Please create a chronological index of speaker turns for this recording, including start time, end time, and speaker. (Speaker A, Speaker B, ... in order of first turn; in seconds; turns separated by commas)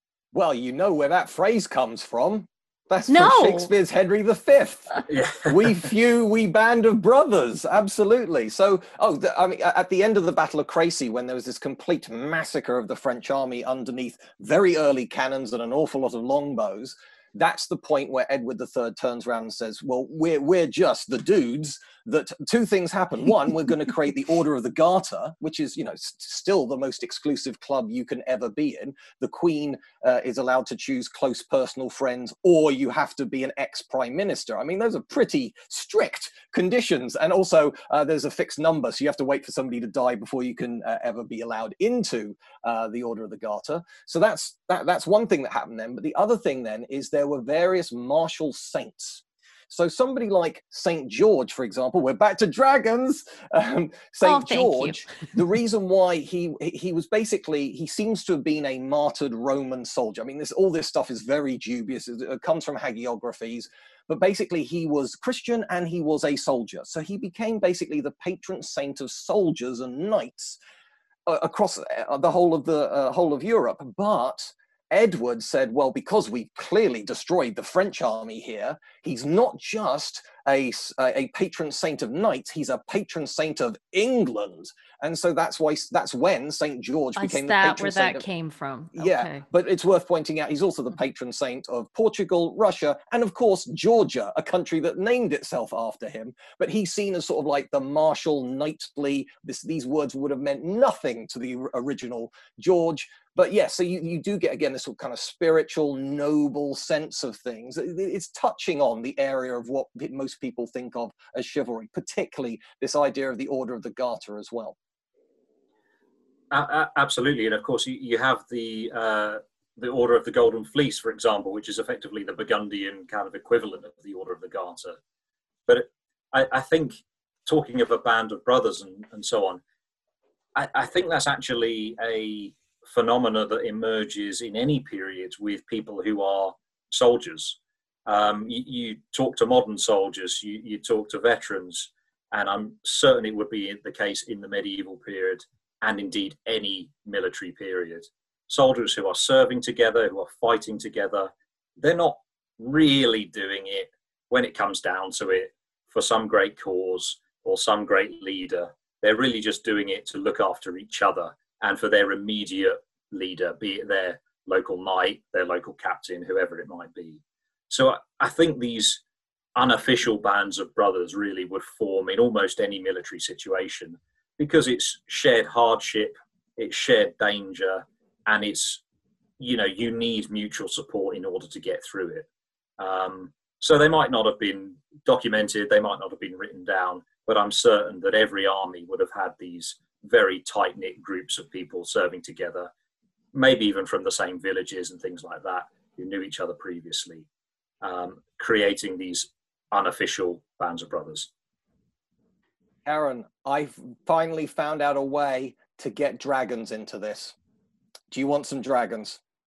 Speaker A: 0.3-70.6, Speaker B: 3.1-3.7, Speaker C: 5.1-5.8, Speaker B: 54.2-55.1, Speaker A: 71.3-88.2, Speaker B: 87.2-89.5, Speaker A: 89.0-114.8, Speaker C: 116.5-125.0, Speaker C: 125.7-129.6, Speaker C: 130.6-169.0, Speaker C: 169.6-178.8, Speaker C: 179.4-182.3, Speaker C: 182.8-192.7, Speaker C: 193.3-197.3, Speaker C: 197.8-201.3, Speaker A: 202.9-207.3, Speaker A: 208.1-209.2